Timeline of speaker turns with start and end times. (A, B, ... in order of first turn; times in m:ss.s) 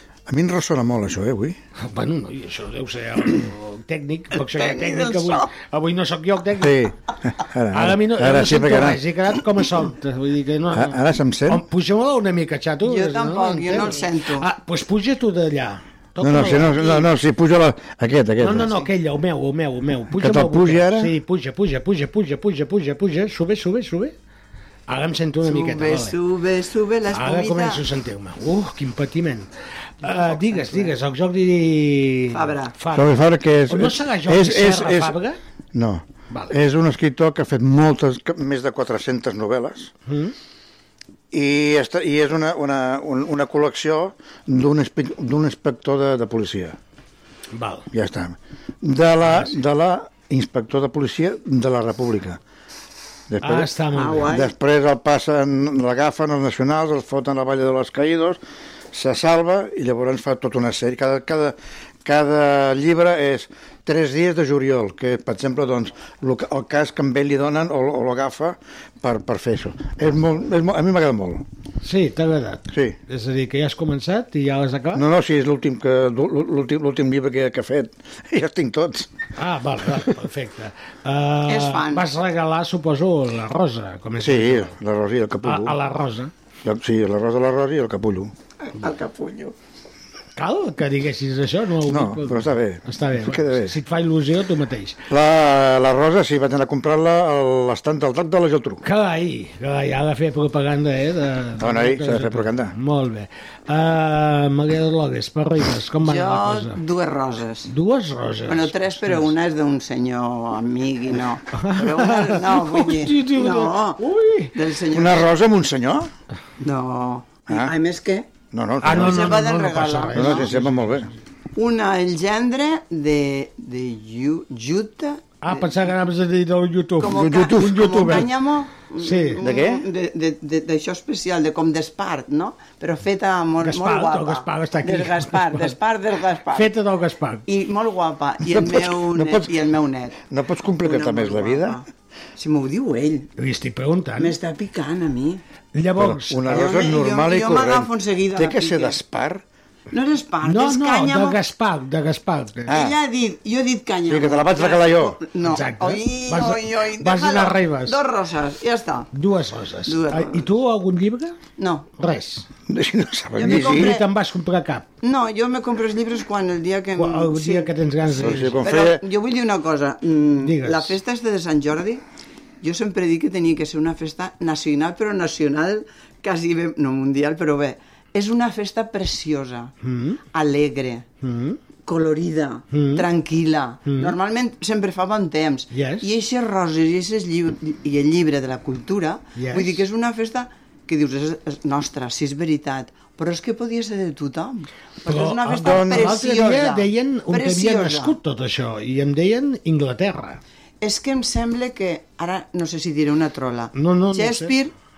0:00.3-0:01.6 A
0:01.8-0:06.8 B
0:04.5-0:05.5 C
0:06.6-0:09.0 A
0:07.7-0:16.9 B
0:10.7-0:11.6 A
0:12.8-0:14.4 C
0:16.2-0:18.8 A
0:18.4-0:24.1 B
0:20.1-0:21.1 A
0:24.9-0:26.2 B
0:25.4-0:27.8 C
0:27.1-0:29.5 B
0:30.0-0:35.4 B
0:30.0-0:30.9 C
0:32.3-0:32.7 C
0:32.9-0:35.2 A
0:35.7-0:39.9 A
0:40.0-0:40.3 B
0:41.3-0:46.8 A
0:47.5-0:47.9 B
0:47.9-0:52.4 A
0:49.2-0:49.5 B
0:53.3-0:58.4 A
0:53.4-0:54.3 B
0:53.9-0:54.5 C
0:58.9-1:11.4 A
1:11.8-1:15.0 B
1:12.7-1:13.0 A
1:14.9-1:19.1 A
1:19.4-1:24.7 B
1:21.5-1:22.0 C
1:24.2-1:25.8 A
1:25.4-1:26.3 B
1:26.6-1:28.3 A
1:28.6-1:29.5 C
1:30.4-1:35.0 B
1:31.8-1:33.8 A
1:35.1-1:38.8 A
1:38.8-1:46.8 B
1:41.6-1:42.7 A
1:46.0-1:47.7 C
1:47.7-1:49.3 B
1:48.5-1:54.0 C
1:51.5-1:54.5 B
1:54.5-1:55.3 C
1:54.9-1:56.1 A
1:56.6-1:58.3 C
1:58.5-1:59.5 A
1:58.8-2:01.1 B
1:58.8-2:00.5 C
2:00.1-2:01.1 A
2:01.5-2:05.7 C
2:05.4-2:08.3 B
2:07.0-2:16.7 C
2:07.1-2:08.2 A
2:09.0-2:09.4 B
2:09.4-2:09.8 A
2:13.6-2:15.8 B
2:16.5-2:17.4 B
2:17.5-2:20.2 C
2:18.4-2:19.5 A
2:20.3-2:21.8 A
2:20.8-2:21.8 C
2:22.4-2:23.3 C
2:23.4-2:24.3 B
2:24.2-2:25.4 C
2:25.7-2:26.7 B
2:26.0-2:29.4 A
2:26.5-2:29.0 C
2:29.9-2:31.4 C
2:30.4-2:32.7 B
2:32.7-2:33.0 A
2:32.7-2:39.1 C
2:34.1-2:35.2 A
2:35.4-2:38.0 B
2:39.1-2:41.4 B
2:39.9-2:40.5 C
2:41.6-2:41.9 C
2:42.0-2:42.4 B
2:42.7-2:44.0 A
2:43.4-2:44.0 C
2:43.4-2:44.9 B
2:45.0-2:47.7 C
2:47.0-2:48.6 B
2:48.1-2:49.0 A
2:48.6-2:52.0 C
2:50.4-2:50.9 B
2:52.6-2:59.7 C
2:59.8-3:00.2 B
3:00.3-3:01.0 C
3:01.2-3:01.6 B
3:01.8-3:18.2 C
3:02.7-3:03.0 B
3:03.8-3:04.1 B
3:05.7-3:06.0 B
3:09.4-3:09.8 B
3:15.0-3:20.4 B
3:15.6-3:16.1 A
3:20.8-3:24.7 C
3:23.7-3:24.5 B